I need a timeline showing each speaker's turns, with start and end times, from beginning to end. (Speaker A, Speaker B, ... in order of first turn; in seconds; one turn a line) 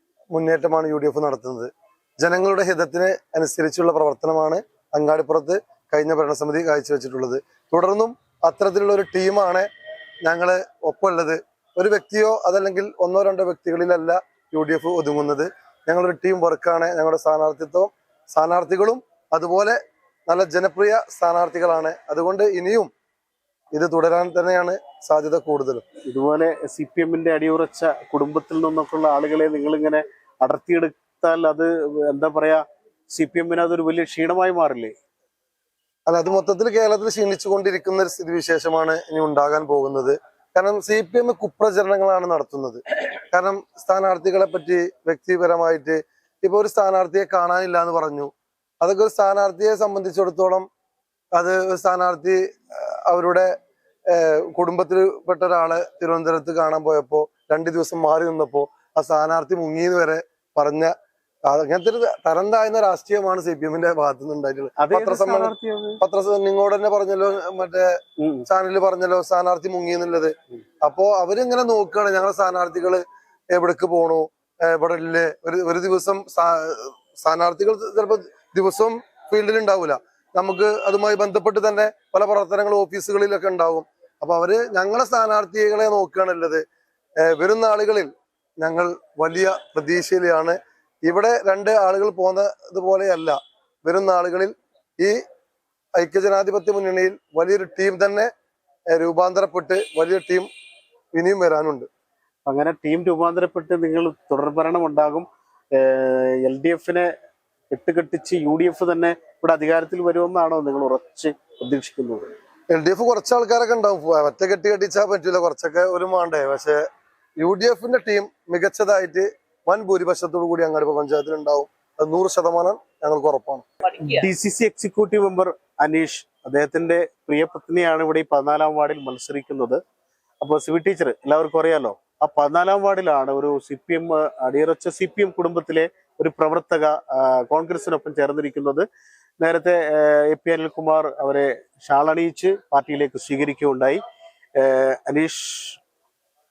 Speaker A: 0.3-9.7
Speaker A: 10.2-22.9
Speaker A: 23.7-25.8
Speaker B: 26.1-34.9
Speaker A: 36.1-42.8
Speaker A: 43.3-50.7
Speaker A: 51.3-53.5
Speaker A: 54.1-60.9
Speaker A: 61.5-86.6
Speaker B: 64.8-66.0
Speaker B: 68.2-68.5
Speaker A: 87.2-95.2
Speaker A: 96.0-98.3
Speaker A: 98.9-100.5
Speaker A: 101.1-101.9
Speaker B: 102.5-107.1
Speaker B: 107.7-112.3
Speaker A: 112.7-116.8
Speaker A: 117.4-123.6
Speaker B: 124.0-129.8
Speaker B: 130.4-138.8
Speaker B: 139.4-144.0
Speaker B: 144.6-145.8